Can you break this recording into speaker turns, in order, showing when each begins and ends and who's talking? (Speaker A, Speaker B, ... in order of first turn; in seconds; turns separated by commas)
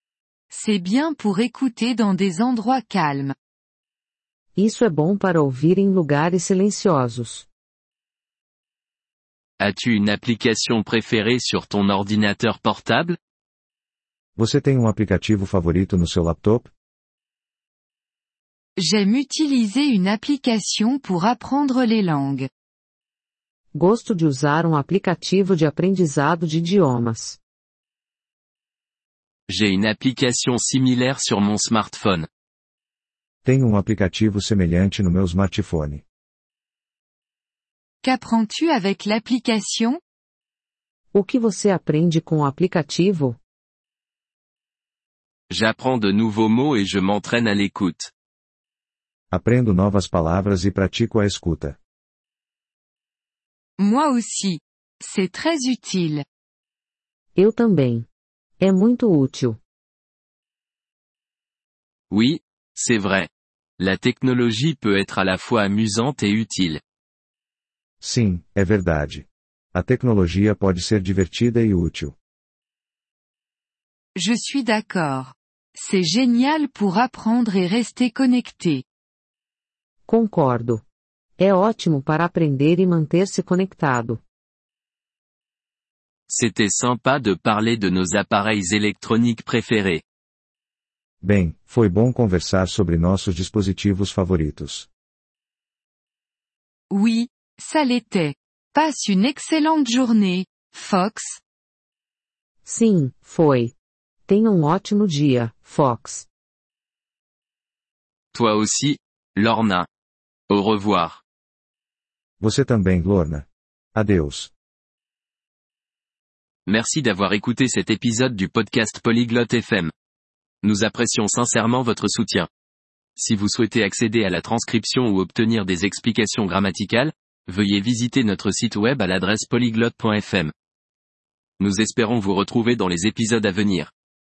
Speaker A: 0.5-3.3, Speaker B: 4.6-7.5, Speaker C: 9.6-13.2, Speaker D: 14.4-16.7, Speaker A: 18.8-22.5, Speaker B: 23.8-27.4, Speaker C: 29.5-32.3, Speaker D: 33.4-36.0, Speaker A: 38.0-40.0, Speaker B: 41.1-43.4, Speaker C: 45.5-48.1, Speaker D: 49.3-51.8, Speaker A: 53.8-56.2, Speaker B: 57.4-58.0, Speaker B: 58.6-59.6, Speaker C: 62.1-66.8, Speaker D: 68.0-72.1, Speaker A: 74.2-78.8, Speaker B: 80.1-80.8, Speaker B: 81.4-84.2, Speaker C: 86.3-90.0, Speaker D: 91.2-94.9, Speaker A: 96.9-101.4, Speaker B: 102.6-103.7, Speaker B: 104.3-106.3, Speaker C: 108.3-109.9, Speaker C: 110.5-111.2, Speaker D: 112.4-114.5, Speaker C: 116.7-119.9, Speaker C: 120.6-122.5, Speaker C: 123.2-130.5, Speaker C: 131.6-133.9